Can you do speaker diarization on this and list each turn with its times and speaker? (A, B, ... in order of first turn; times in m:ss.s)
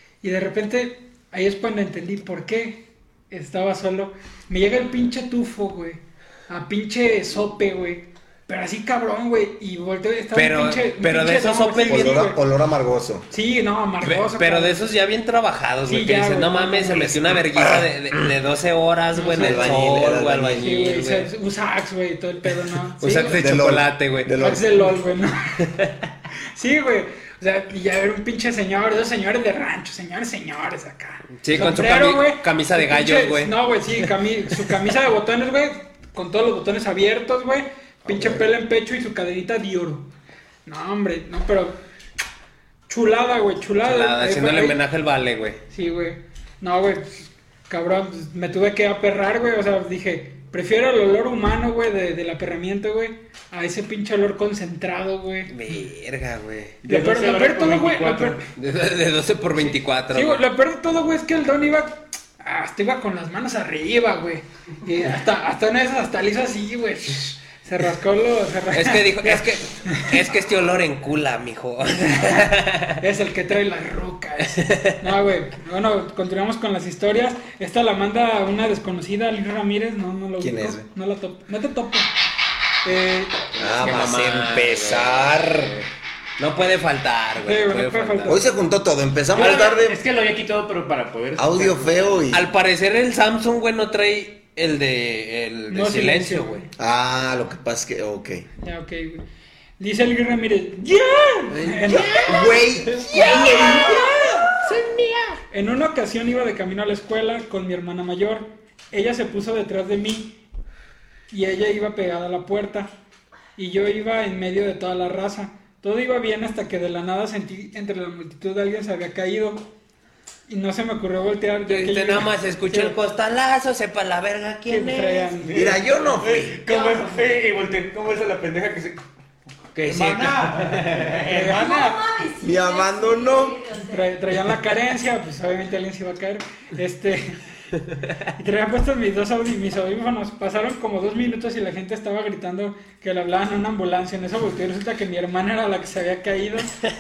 0:00.2-0:12.4 A
0:10.3-0:12.3 B
0:11.8-0:13.3 C
0:13.3-0:14.9 A
0:14.0-0:21.3 B
0:15.9-0:17.4 A
0:17.6-0:18.3 C
0:19.1-0:19.7 A
0:19.3-0:20.7 C
0:20.6-0:23.4 A
0:23.0-0:24.3 B
0:23.2-0:24.9 C
0:24.4-0:25.6 A
0:26.6-0:40.1 A
0:31.4-0:33.6 B
0:38.1-0:38.4 C
0:40.7-0:41.8 A
0:42.9-0:44.8 A
0:43.8-0:45.6 B
0:45.7-0:55.5 A
0:55.5-0:56.8 B
0:56.8-0:58.4 D
0:56.9-0:58.4 A
0:58.6-1:00.4 B
1:00.1-1:10.2 A
1:08.7-1:13.0 B
1:13.0-1:22.1 A
1:14.6-1:15.0 B
1:20.4-1:20.9 C
1:22.8-1:23.4 A
1:23.6-1:25.9 B
1:23.6-1:25.7 C
1:26.4-1:28.4 B
1:27.4-1:28.4 A
1:28.3-1:30.0 C
1:29.3-1:32.2 D
1:31.4-1:32.5 C
1:32.3-1:36.6 B
1:35.7-1:36.7 A
1:36.8-1:38.5 C
1:38.6-1:39.2 A
1:39.8-1:42.6 A
1:41.6-1:44.0 B
1:41.9-1:44.1 C
1:43.2-1:44.0 A
1:44.6-1:45.4 B
1:45.5-1:50.4 A
1:51.3-1:52.9 A
1:53.6-1:59.6 A
2:00.5-2:02.9 A
2:01.7-2:05.3 B
2:04.7-2:05.6 A
2:05.4-2:09.0 D
2:05.5-2:06.6 C
2:06.7-2:07.0 E
2:09.8-2:11.1 B
2:09.9-2:12.0 D
2:11.3-2:11.9 A
2:11.5-2:14.2 E
2:12.4-2:13.6 C
2:13.9-2:17.4 A
2:18.4-2:26.7 A